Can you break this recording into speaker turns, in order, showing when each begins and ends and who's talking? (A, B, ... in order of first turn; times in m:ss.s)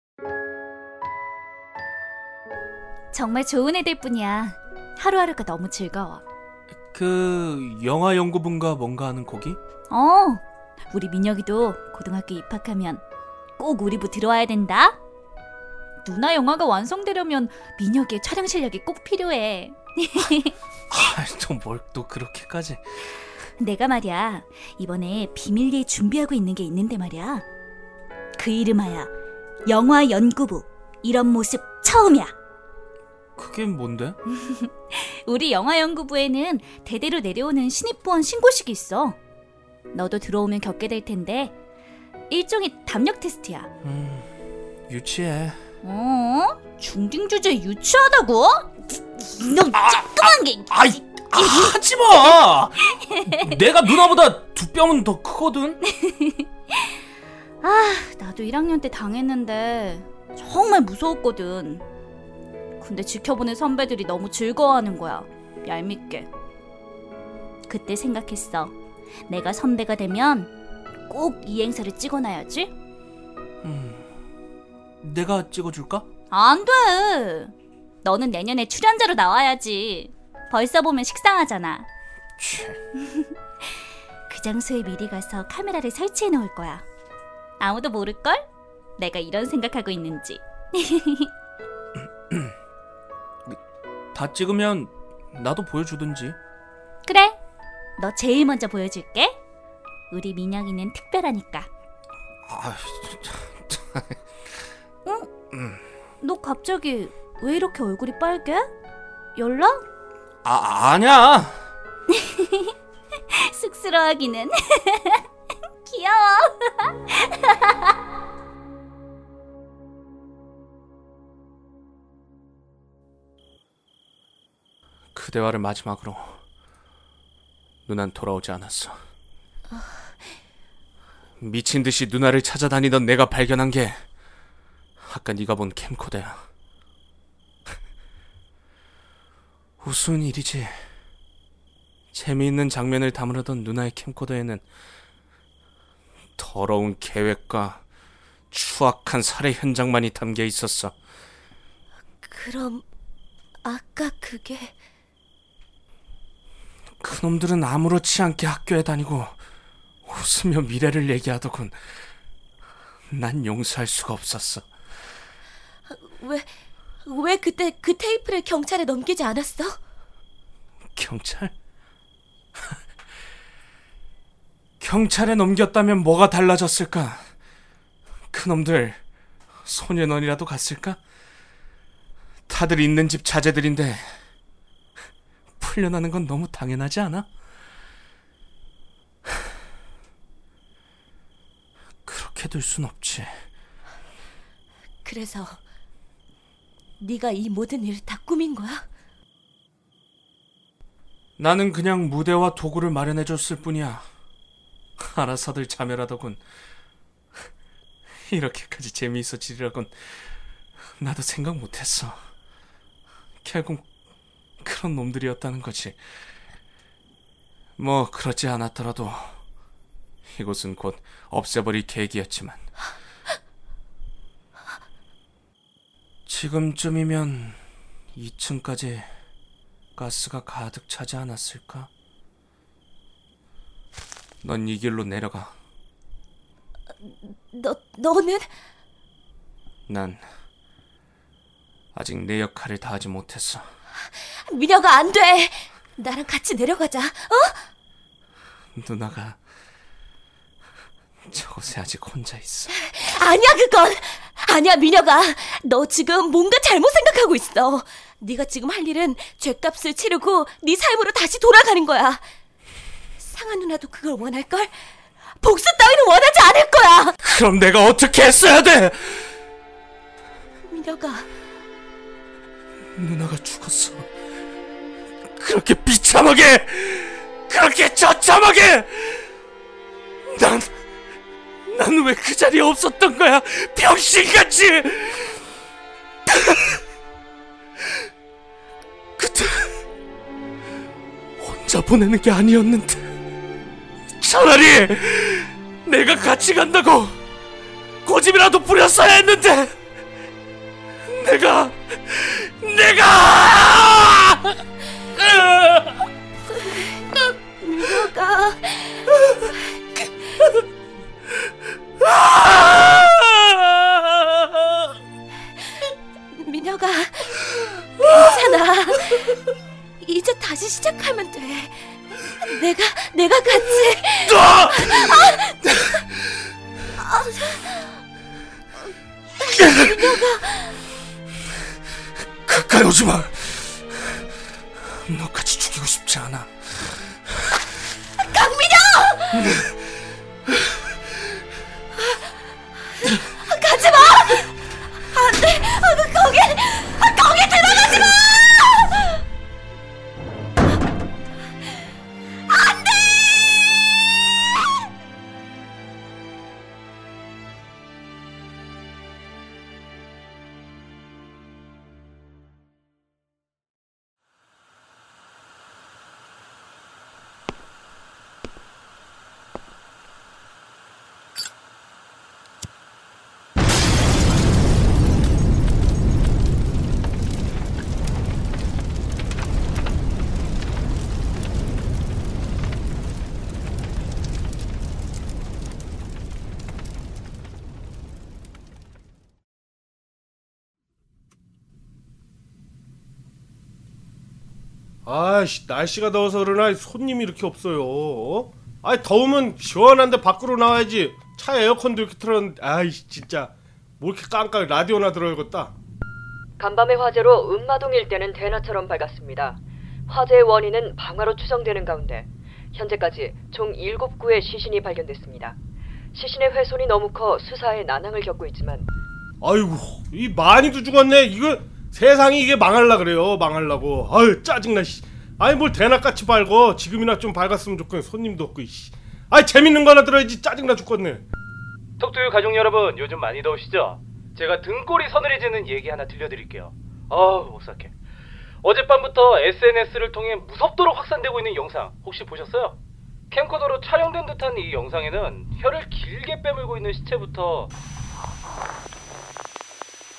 0:03.1-0:06.2 A
0:06.9-0:09.6 B
0:09.9-0:13.0 A
0:13.6-0:15.0 A
0:16.0-0:20.6 A
0:20.9-0:22.8 B
0:23.6-0:27.4 A
0:28.4-0:29.1 A
0:29.7-0:32.4 A
0:33.4-0:34.2 B
0:34.3-0:39.2 A
0:39.9-0:41.5 A
0:42.3-0:43.7 A
0:43.8-0:44.3 B
0:44.9-0:45.6 B
0:45.8-0:51.7 A
0:49.7-0:50.1 B
0:50.7-0:55.8 B
0:53.1-0:53.5 A
0:55.8-0:56.9 A
0:57.6-1:01.8 A
1:02.8-1:06.3 A
1:07.7-1:08.8 A
1:09.3-1:10.5 A
1:11.1-1:12.7 A
1:13.6-1:14.0 B
1:15.0-1:16.0 B
1:16.3-1:21.9 A
1:22.4-1:22.8 B
1:23.0-1:23.3 A
1:24.3-1:26.8 A
1:27.6-1:28.4 A
1:29.0-1:31.3 A
1:34.1-1:36.4 B
1:37.0-1:37.4 A
1:38.0-1:39.4 A
1:40.1-1:41.7 A
1:42.5-1:44.2 B
1:45.0-1:45.3 A
1:45.5-1:45.8 B
1:46.2-1:48.7 A
1:49.4-1:49.8 A
1:50.4-1:51.6 B
1:52.1-1:52.7 A
1:53.3-1:55.2 A
1:55.8-1:57.9 A
2:05.1-2:06.4 B
2:07.9-2:09.0 B
2:09.7-2:10.1 C
2:11.4-2:14.1 B
2:15.0-2:16.4 B
2:19.8-2:20.9 B
2:22.1-2:24.6 B
2:26.4-2:27.8 B
2:28.5-2:31.0 B
2:32.2-2:32.8 C
2:33.6-2:34.7 C
2:37.0-2:39.4 B
2:40.0-2:41.8 B
2:43.1-2:44.7 B
2:45.9-2:49.8 C
2:51.0-2:51.5 B
2:54.8-2:57.3 B
2:58.3-2:59.0 B
2:59.6-3:01.0 B
3:02.5-3:04.2 B
3:05.6-3:07.3 B
3:12.1-3:13.4 B
3:15.0-3:15.6 C
3:17.0-3:18.9 C
3:21.4-3:24.1 B
3:25.0-3:26.4 B
3:28.3-3:30.3 B
3:31.0-3:32.2 B
3:33.4-3:33.9 B
3:34.6-3:36.0 B
3:37.8-3:39.4 B
3:40.3-3:42.6 B
3:46.3-3:47.6 B
3:48.1-3:49.1 B
3:50.0-3:51.9 B
3:54.4-3:55.5 B
3:57.0-3:58.5 C
3:59.9-4:00.2 B
4:01.9-4:03.6 B
4:04.1-4:07.7 C
4:08.8-4:09.4 B
4:11.3-4:12.7 B
4:12.7-4:22.2 C
4:23.2-4:24.8 C
4:25.4-4:27.2 C
4:27.2-4:29.4 B
4:30.7-4:31.3 C
4:33.0-4:34.1 B
4:35.4-4:39.3 B
4:40.3-4:40.7 B
4:41.7-4:45.4 B
4:46.3-4:46.8 B
4:49.2-4:49.8 B
4:51.4-4:53.1 B
4:54.2-4:57.2 B
4:58.0-4:59.7 B
5:01.1-5:04.6 B
5:05.2-5:06.0 B
5:06.5-5:07.1 C
5:07.6-5:09.3 C
5:12.6-5:13.1 B
5:16.3-5:17.4 C
5:18.0-5:19.4 C
5:20.0-5:25.6 C
5:24.3-5:25.9 B
5:27.0-5:27.9 C
5:29.4-5:30.8 C
5:29.6-5:29.8 B
5:32.5-5:34.2 B
5:35.1-5:36.9 B
5:38.3-5:39.4 C
5:39.4-5:39.7 B
5:43.2-5:44.5 C
5:45.1-5:48.9 C
5:52.6-5:53.2 C
6:35.0-6:45.7 D
6:46.6-6:55.6 E
6:56.1-6:58.9 E
6:59.4-7:11.2 D
7:12.0-7:17.9 F
7:18.6-7:22.8 F
7:23.3-7:27.7 F